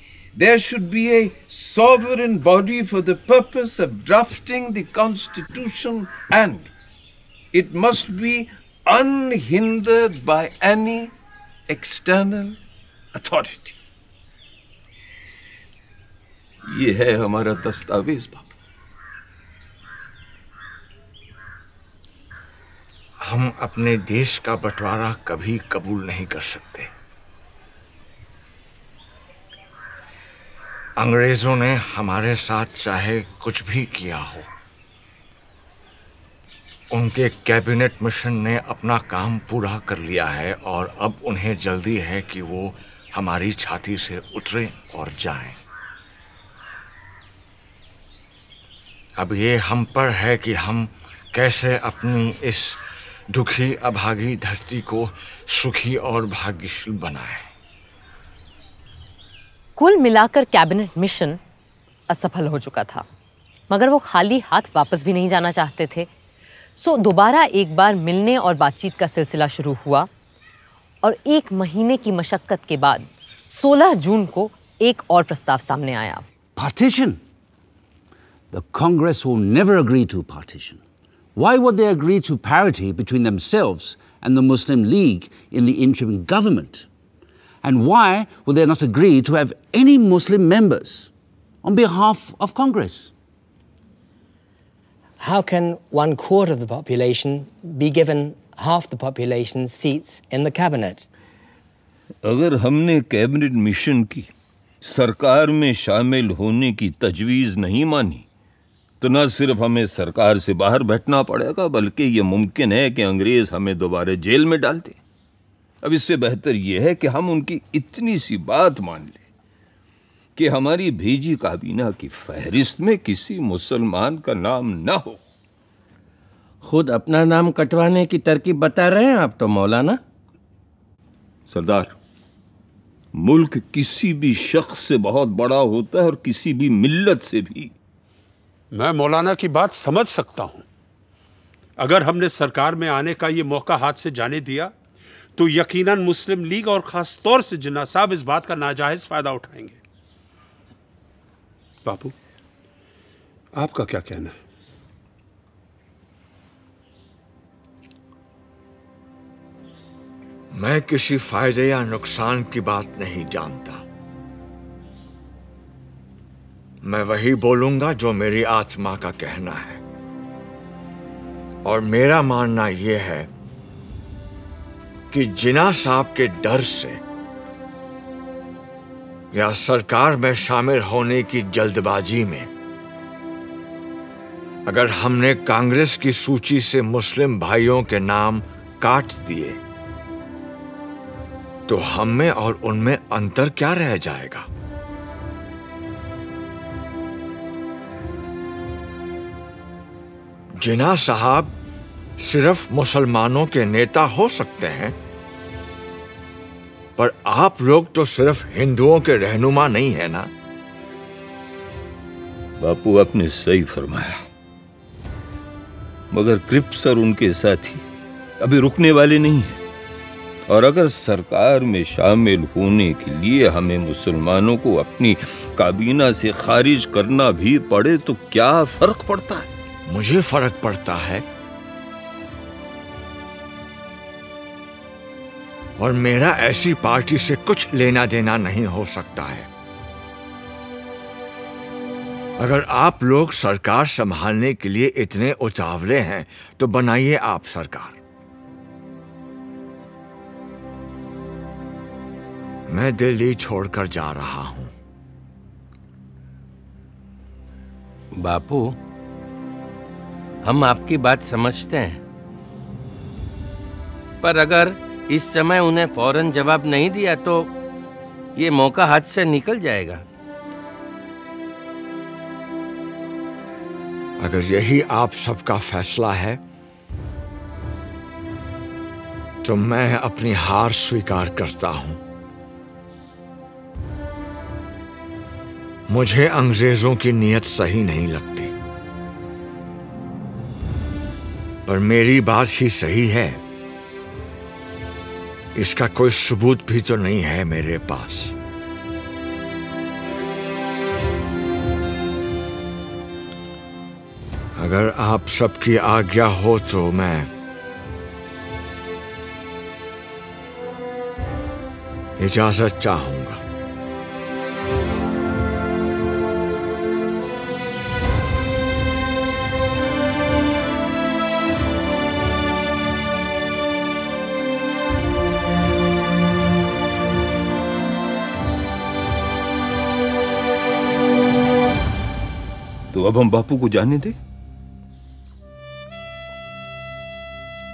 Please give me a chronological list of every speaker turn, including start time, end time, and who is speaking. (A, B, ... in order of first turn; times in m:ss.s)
0:00.3-0:06.7 A
0:07.5-0:11.1 A
0:11.7-0:12.6 A
0:13.2-0:13.7 A
0:16.6-0:18.5 A
0:23.2-0:26.9 B
0:31.0-0:34.5 B
0:36.9-0:45.6 B
0:49.2-0:57.5 B
0:59.8-1:01.4 C
1:02.1-1:03.0 C
1:03.7-1:06.1 C
1:06.8-1:10.1 C
1:11.0-1:16.2 C
1:16.6-1:17.2 D
1:18.5-1:20.8 D
1:21.3-1:26.9 D
1:27.6-1:31.1 D
1:31.6-1:33.1 D
1:35.2-1:41.1 E
1:42.2-1:44.3 A
1:44.8-1:48.2 A
1:49.0-1:55.0 A
1:55.8-1:59.2 A
2:00.4-2:05.2 A
2:06.6-2:10.0 F
2:11.5-2:11.9 A
2:13.2-2:17.7 A
2:18.7-2:20.6 G
2:21.8-2:24.7 G
2:25.4-2:29.8 G
2:31.8-2:32.1 G
2:33.5-2:34.3 G
2:40.5-2:43.8 B
2:46.8-2:49.8 B
2:51.6-2:53.3 B
2:55.1-2:57.0 B
2:59.3-3:02.5 B
3:04.6-3:09.6 B
3:11.7-3:14.5 B
3:20.6-3:21.5 B
3:22.2-3:24.9 B
3:27.0-3:30.3 B
3:32.6-3:34.2 A
3:36.1-3:37.8 A
3:38.4-3:39.6 A
3:40.5-3:49.5 A
3:49.9-3:51.2 B
3:55.8-3:59.5 B
4:02.4-4:08.0 B
4:12.7-4:14.7 B
4:18.2-4:18.7 F
4:20.4-4:22.0 F
4:24.2-4:27.5 F
4:28.4-4:30.0 F
4:34.2-4:36.4 B
4:39.4-4:42.0 B
4:45.9-4:48.5 B
4:51.6-4:53.4 B
4:55.5-4:58.3 B
5:04.6-5:07.3 B
5:12.2-5:13.4 B
5:32.9-5:34.1 A